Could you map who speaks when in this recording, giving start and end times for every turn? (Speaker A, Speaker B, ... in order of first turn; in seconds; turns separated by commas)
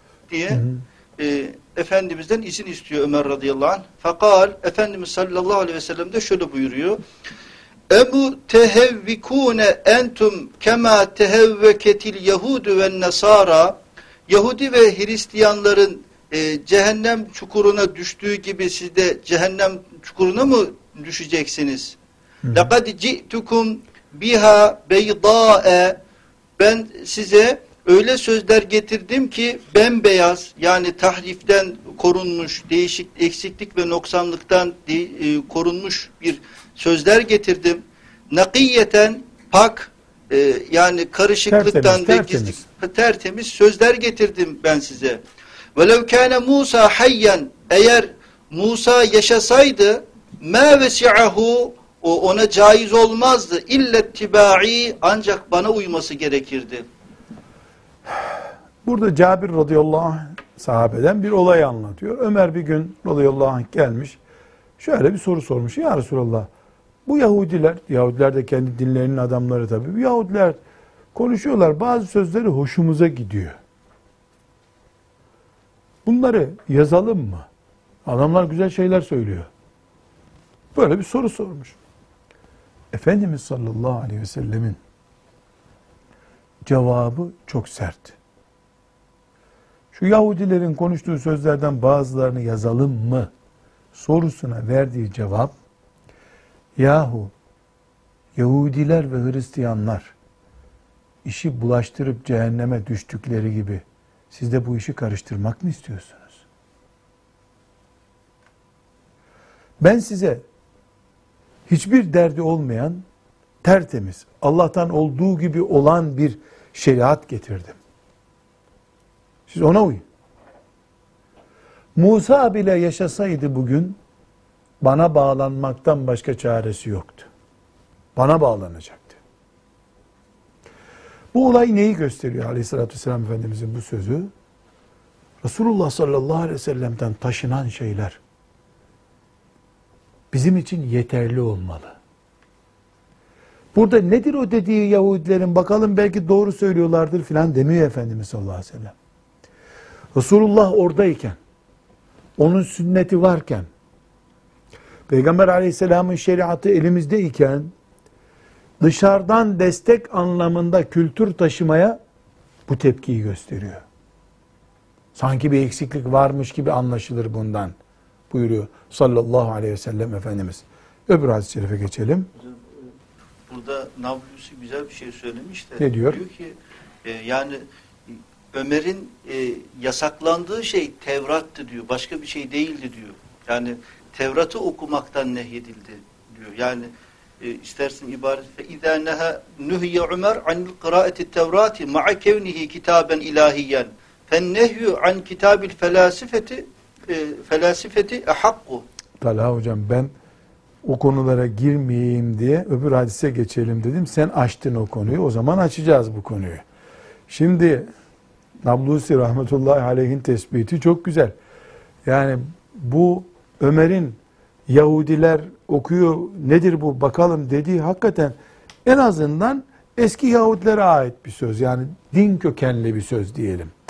Speaker A: 0.3-0.7, Speaker B: 0.5-0.8, Speaker A: 1.2-7.0, Speaker A: 7.9-22.0, Speaker B: 22.5-22.7, Speaker A: 22.5-26.0, Speaker A: 26.6-45.2, Speaker B: 41.5-42.6, Speaker A: 45.8-56.9, Speaker B: 58.1-64.2, Speaker B: 64.8-66.5, Speaker B: 67.1-70.6, Speaker B: 71.1-73.6, Speaker B: 76.0-77.5, Speaker B: 78.0-79.5, Speaker B: 80.8-81.8, Speaker B: 82.9-84.8, Speaker B: 86.7-88.2, Speaker B: 89.9-93.3, Speaker B: 93.9-95.5, Speaker B: 96.8-97.3, Speaker B: 98.4-100.1, Speaker B: 101.2-106.4, Speaker B: 109.8-110.5, Speaker B: 111.7-113.0, Speaker B: 113.6-117.8, Speaker B: 119.5-120.0, Speaker B: 122.0-124.0, Speaker B: 124.8-127.3, Speaker B: 128.2-129.2, Speaker B: 131.3-134.3, Speaker B: 135.4-138.2, Speaker B: 140.3-142.0, Speaker B: 143.7-148.9, Speaker B: 150.1-151.4, Speaker B: 152.4-153.7, Speaker B: 155.1-157.7, Speaker B: 158.8-162.0, Speaker B: 162.7-163.8, Speaker B: 165.2-167.8, Speaker B: 168.3-172.3, Speaker A: 172.4-172.9, Speaker A: 173.5-186.9, Speaker B: 175.8-176.2, Speaker A: 187.4-198.8, Speaker B: 199.2-200.1, Speaker B: 200.8-206.6, Speaker B: 207.3-207.9, Speaker B: 208.6-211.3, Speaker B: 212.1-223.7